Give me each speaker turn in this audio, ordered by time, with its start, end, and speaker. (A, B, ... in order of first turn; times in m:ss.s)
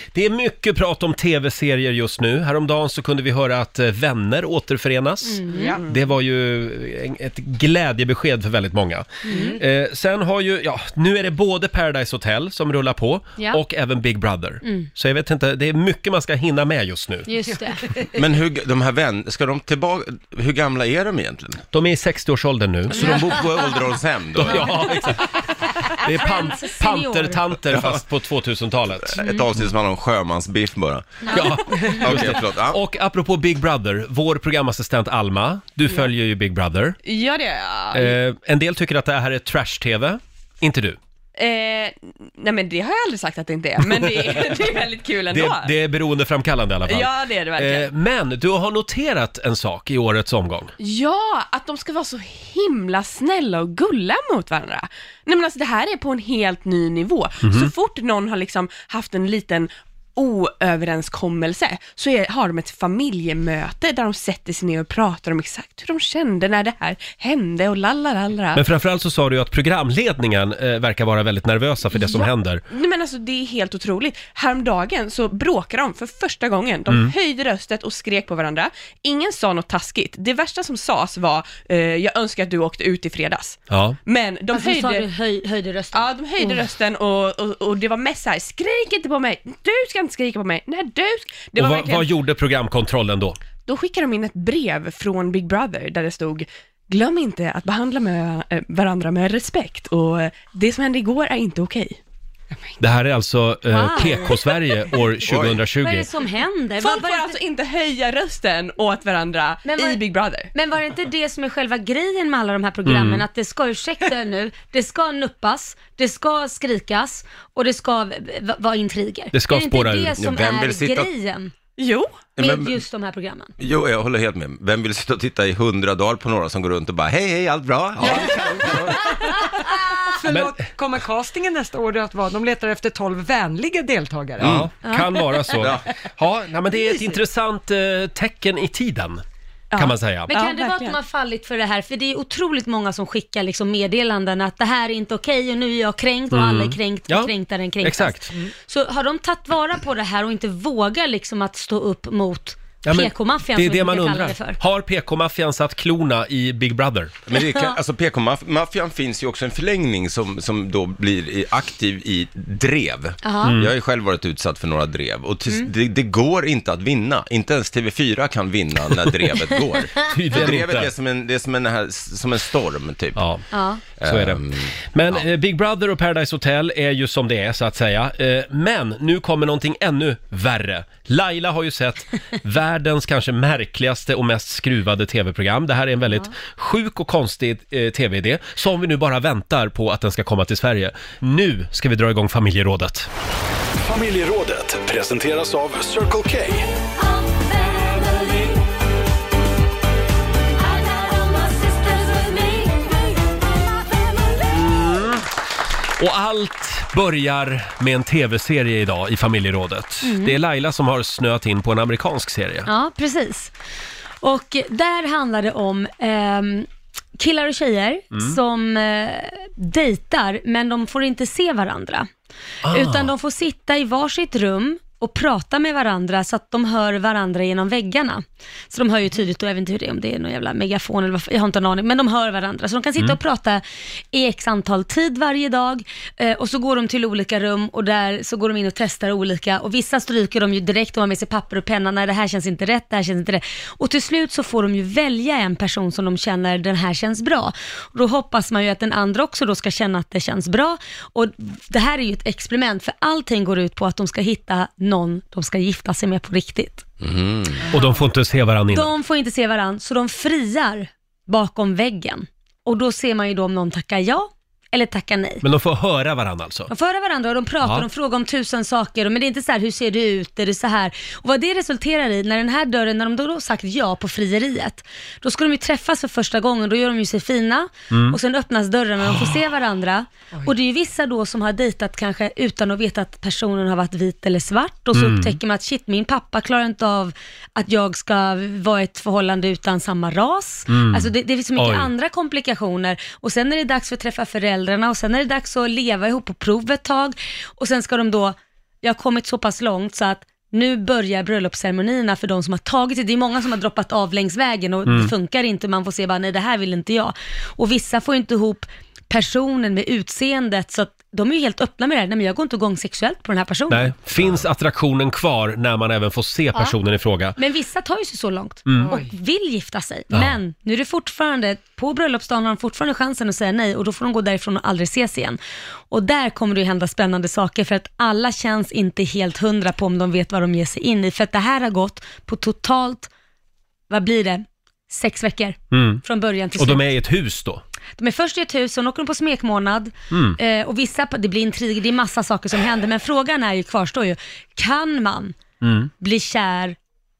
0:00.1-0:17.3 A
0:05.2-0:05.8 B
0:09.2-0:09.6 B
0:17.3-0:18.0 B
0:18.1-0:21.6 C
0:21.7-0:23.3 A
0:22.9-0:24.7 C
0:22.9-0:23.7 B
0:24.3-0:25.3 A
0:24.6-0:24.9 B
0:25.9-0:27.4 B
0:25.9-0:29.2 A
0:27.7-0:28.0 C
0:29.0-0:31.2 C
0:29.2-0:29.4 B
0:31.2-0:32.0 B
0:31.3-0:37.0 A
0:32.0-0:32.8 C
0:37.0-0:38.1 D
0:37.9-0:41.0 A
0:41.4-0:45.7 D
0:45.3-0:50.7 A
0:46.9-0:47.9 D
0:50.8-1:08.6 D
0:57.4-0:57.7 A
1:08.5-1:12.6 A
1:11.9-1:25.1 D
1:16.9-1:17.1 A
1:23.7-1:24.0 A
1:24.5-1:26.6 B
1:25.9-1:32.1 D
1:31.6-1:33.4 A
1:33.6-1:42.0 D
1:42.8-1:46.1 A
1:43.7-1:44.5 B
1:45.3-1:45.6 C
1:45.8-1:47.4 B
1:46.8-1:50.5 D
1:49.6-1:50.0 B
1:50.5-2:01.5 B
1:52.8-1:53.2 A
1:59.3-2:00.2 A
2:00.2-2:01.1 C
2:01.8-2:02.3 D
2:02.4-2:02.8 C
2:02.4-2:03.5 B
2:03.6-2:08.9 C
2:10.1-2:14.5 E
2:10.3-2:10.6 A
2:14.4-2:14.7 C
2:14.4-2:19.2 A
2:14.8-2:15.5 B
2:15.6-2:15.8 C
2:19.7-2:21.0 D
2:19.8-2:20.3 A
2:20.3-2:34.6 B
2:26.3-2:28.3 A
2:32.8-2:37.1 A
2:37.3-2:53.2 C
2:37.4-2:37.7 B
2:43.2-2:43.6 B
2:43.4-2:43.7 A
2:50.1-2:50.9 A
2:53.2-2:53.4 A
2:53.5-2:53.8 B
2:53.9-2:55.2 C
2:54.0-3:13.1 A
3:13.8-3:16.7 F
3:17.0-3:18.6 B
3:20.6-3:23.2 B
3:24.5-3:25.3 A
3:26.0-3:32.7 A
3:30.0-3:30.4 B
3:32.6-3:33.5 B
3:34.2-3:42.1 B
3:42.6-3:43.1 A
3:42.7-4:16.8 B
4:17.0-4:17.6 C
4:17.7-4:18.9 A
4:18.7-4:25.4 B
4:25.4-4:26.7 A
4:26.7-5:14.0 B
4:27.6-4:27.9 A
4:37.9-4:38.2 A
4:39.0-4:39.3 A
4:44.9-4:45.4 A
4:50.7-4:51.9 A
5:04.8-5:05.1 A
5:13.7-5:17.4 A
5:17.4-5:25.4 B
5:18.7-5:19.0 A
5:25.9-5:33.1 B
5:33.9-5:36.9 B
5:35.7-5:36.0 A
5:36.6-5:37.6 A
5:38.0-5:45.4 B
5:40.1-5:40.4 A
5:45.6-5:45.9 A
5:46.0-5:46.8 B